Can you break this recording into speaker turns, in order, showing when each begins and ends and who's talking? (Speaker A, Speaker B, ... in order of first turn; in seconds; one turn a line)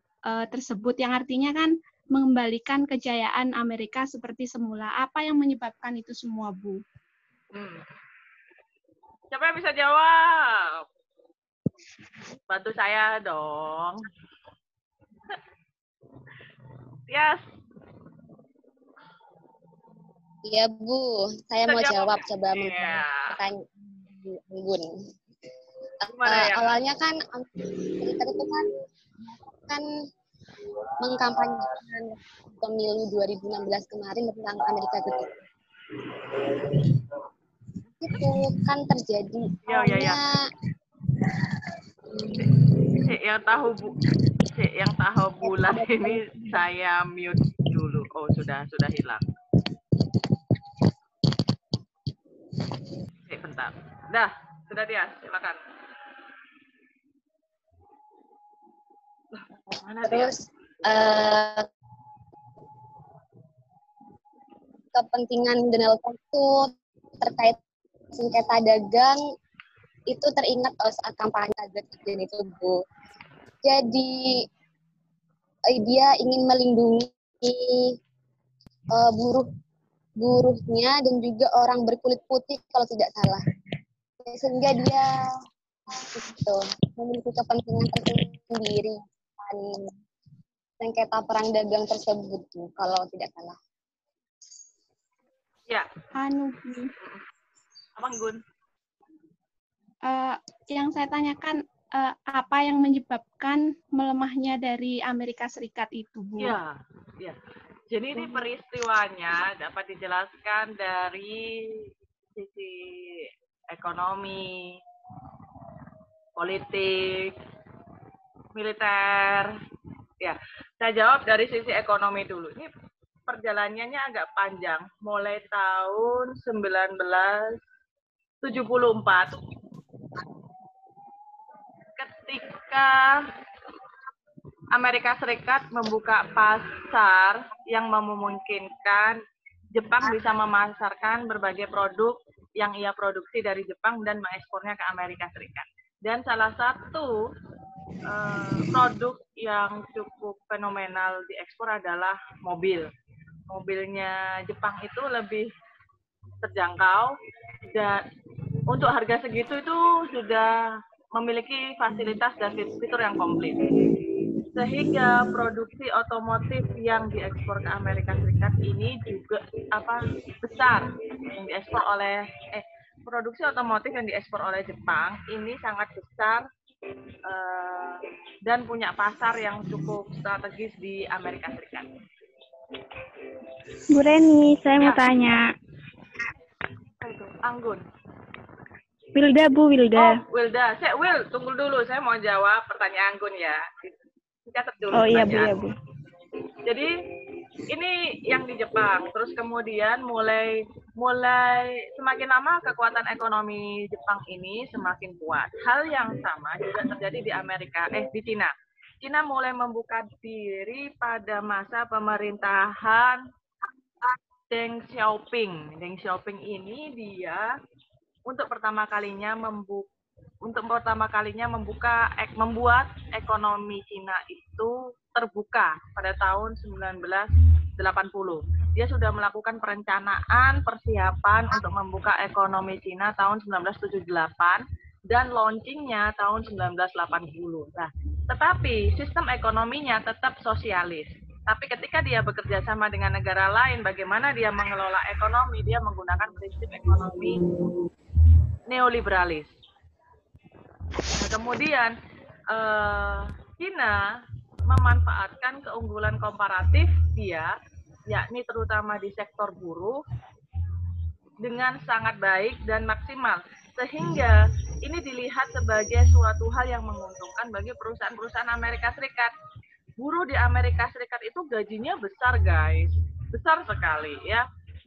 Speaker A: 0.3-6.8
Speaker B: 7.5-7.8
Speaker B: 9.3-10.8
Speaker B: 12.5-14.1
Speaker B: 17.1-17.4
Speaker C: 20.4-24.9
Speaker B: 21.7-23.4
Speaker C: 26.1-28.7
Speaker B: 26.1-26.8
Speaker C: 29.6-29.9
Speaker C: 31.0-35.3
Speaker C: 38.0-40.4
Speaker B: 39.7-40.2
Speaker B: 43.0-49.2
Speaker C: 45.4-46.6
Speaker B: 53.3-55.6
Speaker B: 59.4-60.3
Speaker C: 60.0-61.7
Speaker C: 64.9-67.6
Speaker C: 68.2-69.2
Speaker C: 70.1-72.8
Speaker C: 73.6-74.5
Speaker C: 75.7-78.0
Speaker C: 78.9-79.5
Speaker C: 80.2-83.4
Speaker C: 84.2-85.1
Speaker C: 86.0-90.0
Speaker C: 90.8-93.6
Speaker A: 96.2-96.9
Speaker B: 98.0-98.4
Speaker A: 100.1-106.5
Speaker B: 106.4-107.4
Speaker B: 107.9-111.8
Speaker B: 112.4-114.7
Speaker B: 116.4-117.3
Speaker B: 118.5-119.5
Speaker B: 120.2-122.7
Speaker B: 123.3-127.6
Speaker B: 128.4-129.4
Speaker B: 132.0-133.2
Speaker B: 134.8-139.2
Speaker B: 139.7-147.2
Speaker B: 148.1-152.9
Speaker B: 153.5-155.5
Speaker B: 156.4-157.1
Speaker B: 157.7-158.0
Speaker B: 158.7-160.6
Speaker B: 161.2-163.7
Speaker B: 164.5-176.4
Speaker B: 177.2-181.9
Speaker D: 183.9-185.5
Speaker B: 184.8-185.1
Speaker B: 187.0-187.8
Speaker D: 189.2-190.2
Speaker B: 189.9-193.9
Speaker B: 194.5-195.6
Speaker D: 194.9-195.7
Speaker B: 196.7-196.9
Speaker B: 197.7-213.2
Speaker B: 214.0-217.5
Speaker B: 218.3-219.9
Speaker B: 220.4-247.4
Speaker B: 248.7-249.5
Speaker B: 251.2-251.9
Speaker B: 252.5-254.1
Speaker B: 254.7-257.5
Speaker B: 258.1-260.0
Speaker B: 261.4-269.3
Speaker B: 270.0-274.5